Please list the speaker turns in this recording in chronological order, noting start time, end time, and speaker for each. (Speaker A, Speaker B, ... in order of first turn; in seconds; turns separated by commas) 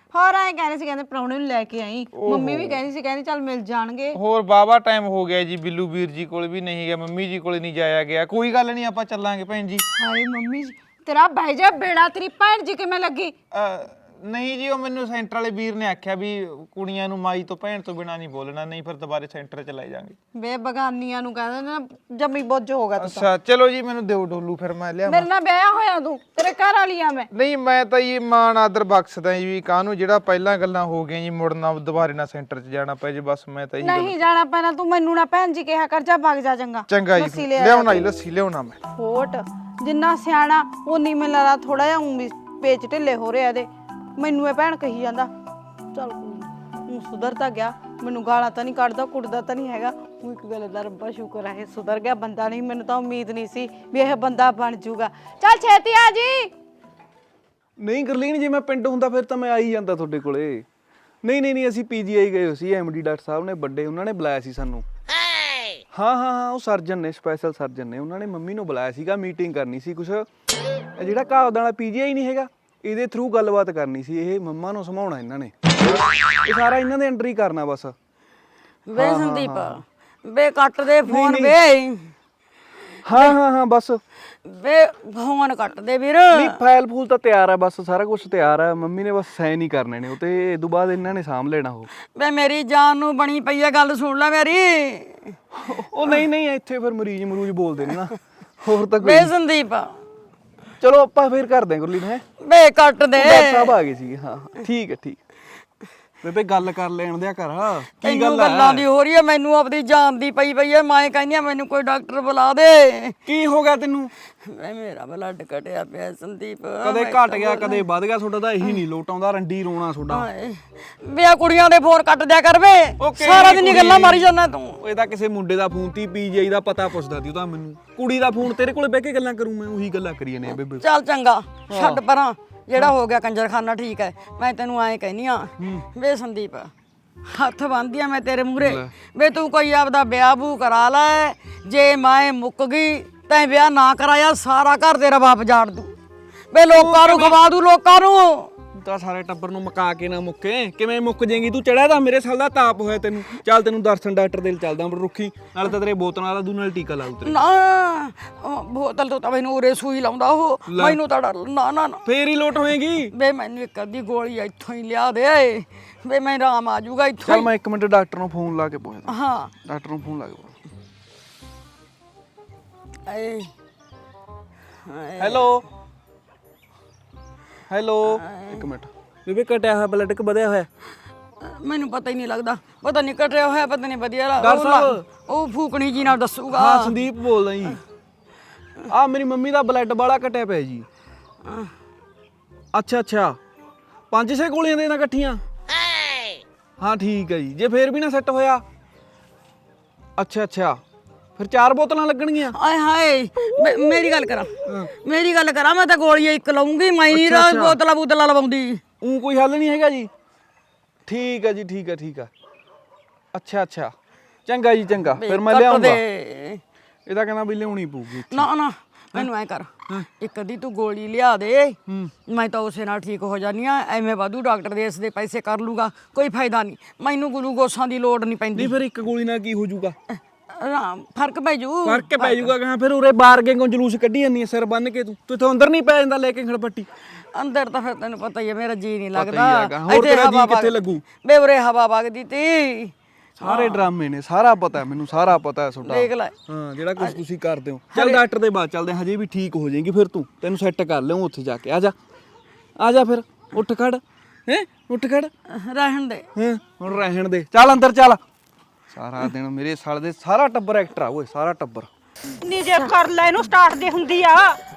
Speaker A: 0.1-4.2, Speaker B: 2.1-2.8, Speaker B: 4.1-9.8, Speaker A: 9.9-13.3, Speaker B: 13.5-20.1, Speaker A: 20.3-23.2, Speaker B: 23.0-25.3, Speaker A: 25.1-27.3, Speaker B: 27.3-34.1, Speaker A: 33.8-38.1, Speaker B: 36.9-38.8, Speaker A: 39.0-45.3, Speaker A: 45.9-56.5, Speaker C: 57.8-60.6, Speaker C: 61.2-64.8, Speaker C: 65.9-70.2, Speaker C: 71.0-75.5, Speaker C: 76.4-77.9, Speaker D: 78.9-82.1, Speaker C: 79.0-79.8, Speaker C: 81.0-81.6, Speaker C: 83.0-84.0, Speaker D: 84.5-86.5, Speaker C: 86.3-91.9, Speaker D: 92.1-95.4, Speaker C: 95.6-99.3, Speaker D: 99.0-100.0, Speaker C: 100.8-102.2, Speaker D: 102.4-103.7, Speaker C: 103.1-105.2, Speaker C: 106.2-108.8, Speaker D: 108.0-113.2, Speaker C: 113.2-114.1, Speaker D: 114.4-117.8, Speaker C: 116.8-120.2, Speaker D: 120.1-124.8, Speaker C: 123.0-124.3, Speaker C: 124.8-130.8, Speaker D: 130.8-136.7, Speaker C: 131.7-132.0, Speaker C: 135.6-135.9, Speaker D: 137.3-145.9, Speaker C: 138.6-138.9, Speaker D: 146.5-148.5, Speaker C: 146.7-147.4, Speaker C: 148.8-157.4, Speaker D: 157.2-162.0, Speaker C: 160.7-161.0, Speaker C: 162.0-163.1, Speaker D: 163.1-167.5, Speaker C: 167.2-170.5, Speaker D: 169.1-169.5, Speaker D: 173.1-173.5, Speaker D: 174.8-175.4, Speaker C: 175.2-175.6, Speaker C: 177.7-180.7, Speaker D: 178.1-178.6, Speaker D: 181.4-186.9, Speaker C: 184.4-185.0, Speaker C: 186.5-187.8, Speaker C: 188.9-190.9, Speaker D: 191.4-191.7, Speaker C: 192.7-193.4, Speaker C: 194.1-195.4, Speaker C: 196.8-198.6, Speaker C: 200.2-200.8, Speaker C: 201.4-202.5, Speaker D: 202.5-208.8, Speaker C: 207.1-207.8, Speaker C: 209.0-210.1, Speaker C: 211.1-212.3, Speaker C: 213.3-213.9, Speaker C: 214.4-216.0, Speaker D: 215.1-216.6, Speaker C: 217.1-218.5, Speaker D: 218.3-228.8, Speaker C: 228.6-229.9, Speaker D: 230.1-232.5, Speaker C: 231.8-236.9, Speaker D: 237.3-243.8, Speaker C: 239.1-241.0, Speaker C: 243.4-251.9, Speaker D: 245.8-246.3, Speaker D: 247.9-248.2, Speaker C: 252.8-255.3, Speaker D: 255.5-256.3, Speaker C: 256.4-258.2, Speaker C: 258.9-261.9, Speaker E: 262.4-264.6